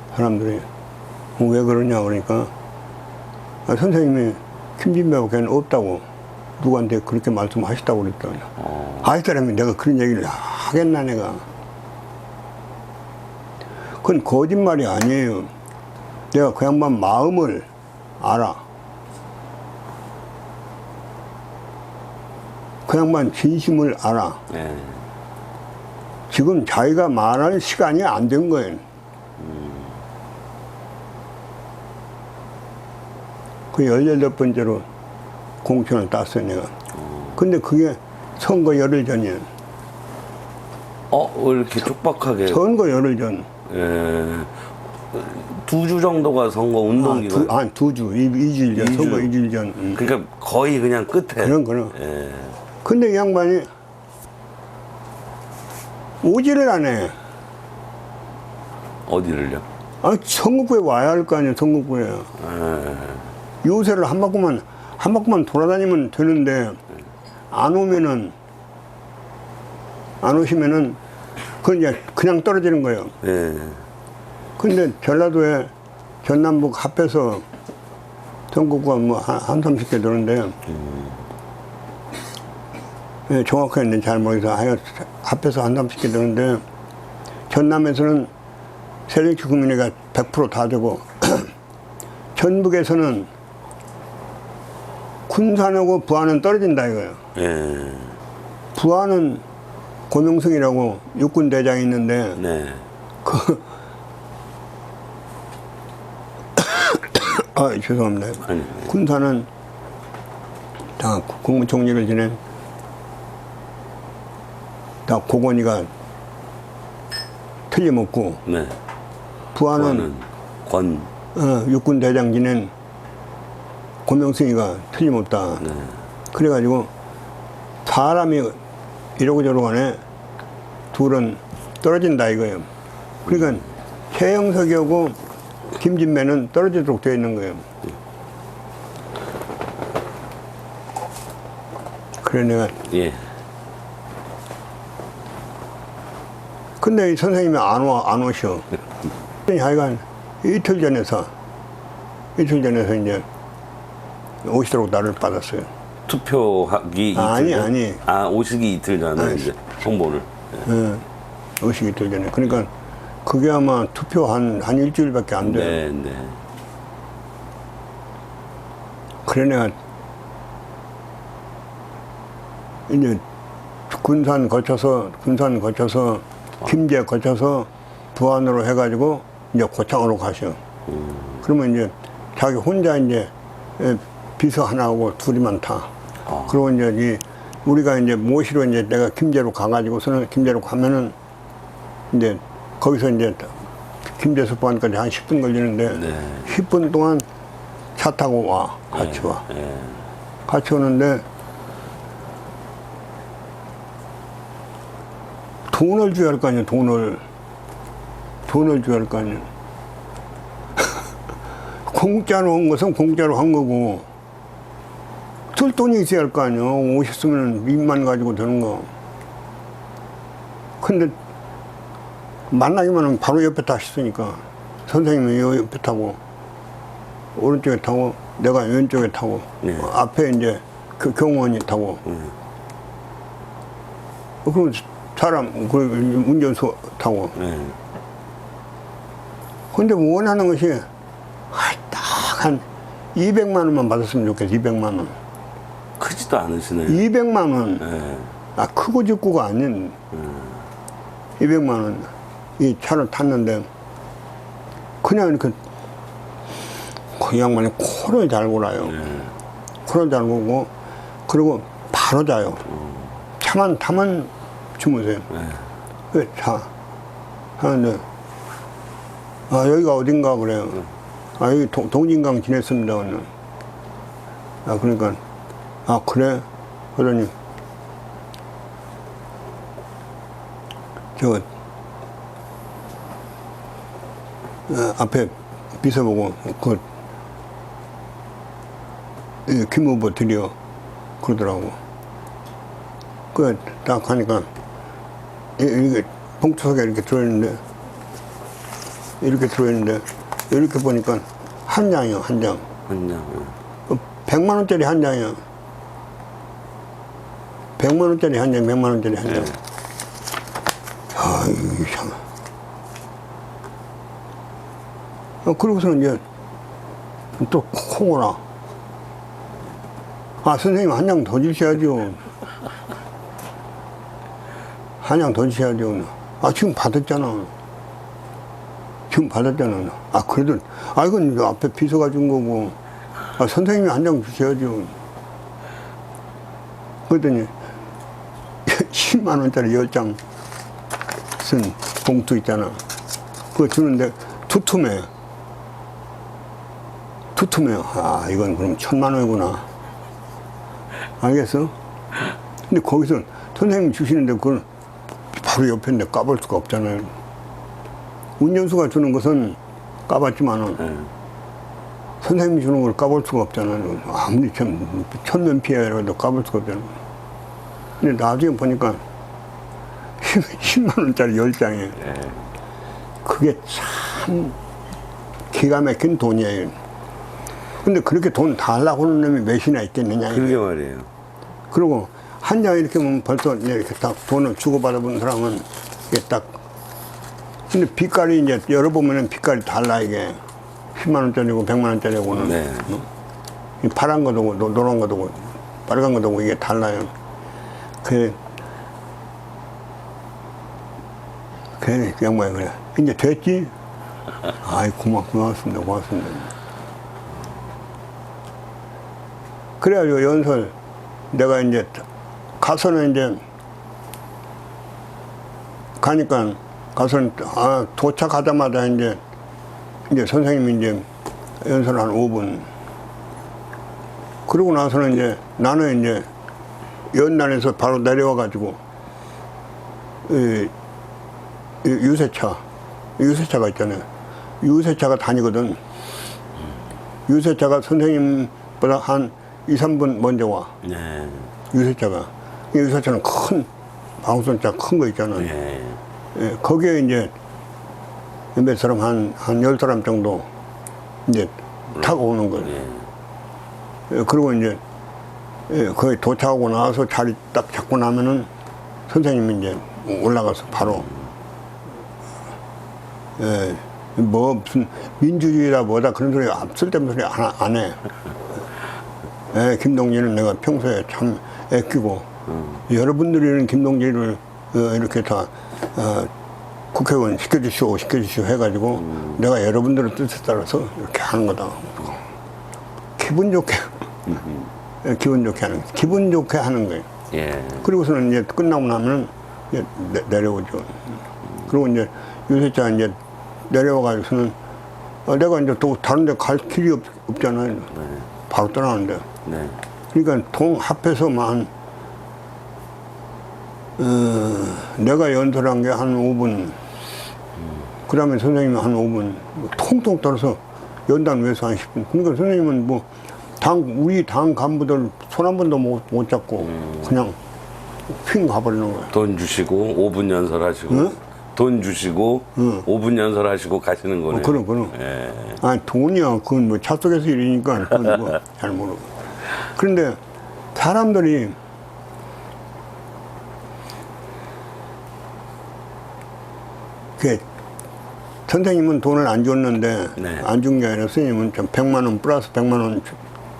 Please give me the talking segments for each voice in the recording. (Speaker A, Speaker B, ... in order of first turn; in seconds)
Speaker A: 0.1-0.7, 1.4-2.5, 3.6-6.0, 6.6-11.4, 14.0-15.5, 16.3-17.7, 18.2-18.6, 22.9-24.4, 26.3-28.8, 33.7-34.8, 35.6-36.7, 37.4-39.5, 42.5-43.5, 47.0-50.0, 51.4-51.9, 52.8-53.7, 56.2-57.1, 60.0-62.3, 63.6-66.8, 67.5-68.3, 70.2-71.0, 71.6-73.1, 74.6-75.7, 76.2-77.4, 78.5-80.5, 83.3-86.6, 87.5-88.3, 89.1-91.5, 92.3-93.3, 95.3-97.2, 98.7-99.4, 100.1-102.4, 103.2-103.6, 106.6-109.5, 111.0-112.4, 115.0-115.9, 117.7-118.4, 119.5-120.1, 121.3-122.7, 124.0-125.7, 126.3-126.9, 127.8-128.6, 129.2-130.0, 130.9-132.7, 133.2-135.2, 135.8-137.6, 142.2-142.8, 146.8-148.7, 149.5-151.3, 152.3-153.2, 154.4-155.7, 157.1-158.0, 159.2-159.4, 160.6-161.0, 161.6-162.7, 163.2-165.8, 169.2-169.7, 172.9-173.2, 173.9-180.6, 181.4-185.9, 186.5-191.1, 192.1-193.5, 194.2-197.2, 197.9-199.4, 200.5-201.2, 205.7-207.2, 208.5-209.5, 211.9-214.1, 215.5-218.9, 220.8-221.1, 222.5-226.2, 227.3-232.0, 234.4-237.3, 239.7-240.8, 241.5-242.6, 243.1-245.1, 246.9-247.8, 248.6-249.9, 251.4-253.7, 255.0-255.6, 257.1-259.0, 259.9-260.7, 261.3-262.6, 263.4-265.3, 266.1-266.7, 267.6-268.0, 269.5-270.8, 271.4-273.3, 274.6-275.2, 275.9-277.3, 281.1-281.4, 284.7-286.8, 289.4-290.5, 291.2-291.8, 293.3-294.5, 295.6-297.6, 299.2-302.6, 303.9-305.4, 307.8-309.5, 311.1-312.2, 315.4-316.2, 317.4-318.4, 320.4-322.2, 325.0-327.5, 329.1-332.7, 333.4-334.9, 337.1-337.5, 338.6-340.2, 341.4-342.8, 343.5-345.1, 347.3-349.6, 351.2-351.7, 352.7-354.6, 355.3-357.1, 358.4-360.9, 362.2-366.9, 368.0-369.0, 370.2-372.0, 373.2-374.6, 375.5-376.7, 377.8-380.6, 381.7-386.5, 387.7-390.4, 390.9-392.6, 393.8-397.1, 398.0-398.4, 401.8-403.7, 404.6-406.5, 409.8-410.7, 411.3-412.0, 412.6-413.4, 416.0-419.2, 420.1-421.1, 421.6-422.6, 424.5-426.2, 427.1-428.8, 430.2-430.7, 431.8-432.6, 433.2-434.0, 434.6-435.8, 437.3-440.7, 441.7-443.7, 444.2-445.5, 446.3-447.3, 448.5-450.5, 451.2-452.8, 454.1-454.8, 455.7-458.5, 459.1-461.1, 463.4-468.0, 469.5-472.3, 472.9-476.3, 476.9-482.2, 483.2-483.9, 485.0-487.1, 487.8-491.0, 491.6-493.2, 493.7-494.6, 495.2-497.9, 498.5-499.2, 500.1-501.7, 504.0-506.8, 508.1-513.0, 513.6-517.4, 518.2-519.1, 522.6-522.9, 524.3-524.9, 525.6-529.1, 529.7-530.2, 530.7-531.5, 537.2-537.4, 538.5-543.2
Speaker B: 24.5-24.9, 29.4-29.8, 41.1-42.6, 43.7-47.5, 48.7-49.3, 49.9-52.5, 59.0-59.6, 62.4-63.2, 73.2-73.8, 80.7-81.1, 97.3-98.2, 102.4-102.8, 108.5-108.9, 118.5-118.7, 119.7-121.1, 142.9-143.2, 156.1-160.6, 165.4-166.4, 186.3-186.5, 195.9-196.5, 198.9-199.9, 237.4-237.7, 246.0-247.0, 247.8-248.3, 302.9-303.5, 372.1-372.3, 380.2-381.1, 392.3-393.0, 440.8-441.5, 445.4-446.0, 487.3-487.9, 497.9-498.2, 499.4-499.8, 519.1-525.6, 540.2-540.4